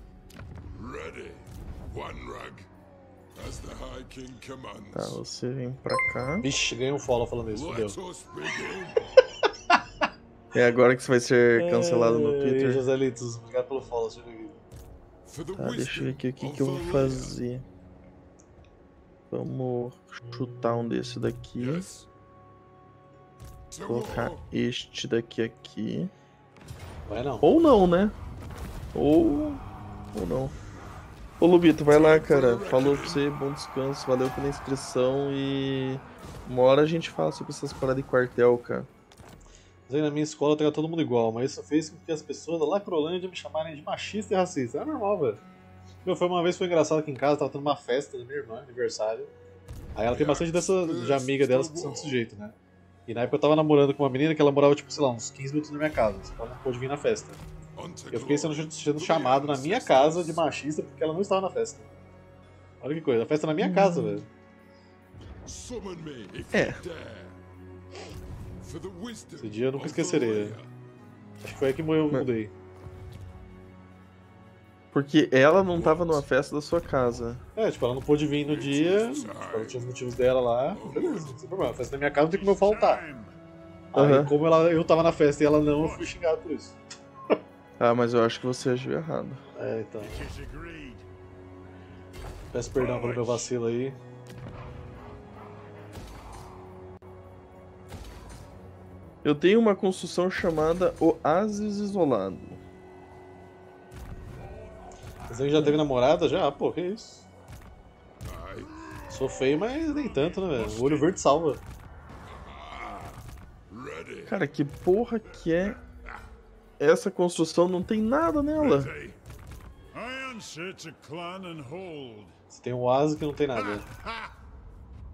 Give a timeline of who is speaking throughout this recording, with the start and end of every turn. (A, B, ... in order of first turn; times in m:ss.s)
0:00.7-0:02.7 A
0:03.3-0:05.2 A
0:04.9-0:06.5 B
0:06.4-0:08.0 C
0:07.5-0:09.2 A
0:10.5-0:12.9 B
0:11.5-0:14.6 C
0:15.2-0:17.4 A
0:15.6-0:17.6 B
0:19.3-0:21.9 B
0:20.2-0:20.9 C
0:21.6-0:22.0 A
0:23.7-0:24.4 A
0:23.8-0:26.1 B
0:27.0-0:27.5 C
0:27.4-0:28.2 B
0:28.9-0:29.6 B
0:30.1-0:30.5 B
0:31.4-0:38.9 B
0:31.9-0:33.2 A
0:39.9-0:45.4 C
0:46.0-0:49.3 C
0:49.9-0:52.6 C
0:50.1-0:52.2 A
0:53.1-0:57.4 C
0:57.8-1:00.4 A
0:58.1-1:01.9 C
1:02.8-1:04.3 C
1:03.6-1:04.2 B
1:05.4-1:07.4 A
1:06.5-1:06.8 B
1:08.6-1:10.7 A
1:09.4-1:10.6 C
1:11.4-1:12.5 C
1:14.9-1:17.4 B
1:15.6-1:16.2 A
1:17.6-1:23.0 C
1:18.4-1:19.8 A
1:20.7-1:21.3 A
1:22.2-1:23.3 A
1:23.9-1:26.8 C
1:23.9-1:24.3 B
1:25.7-1:26.1 A
1:27.8-1:29.4 B
1:29.5-1:30.3 C
1:30.0-1:31.0 A
1:32.5-1:34.0 C
1:32.8-1:33.5 A
1:39.2-1:42.6 B
1:45.3-1:47.3 C
1:48.2-1:49.2 A
1:49.1-1:51.6 C
1:49.7-1:51.2 A
1:52.3-1:54.4 A
1:54.3-1:55.8 B
1:55.4-1:56.2 A
1:56.8-1:58.9 B
1:58.5-1:59.2 A
1:59.9-2:02.3 A
2:02.5-2:03.8 C
2:03.5-2:04.3 A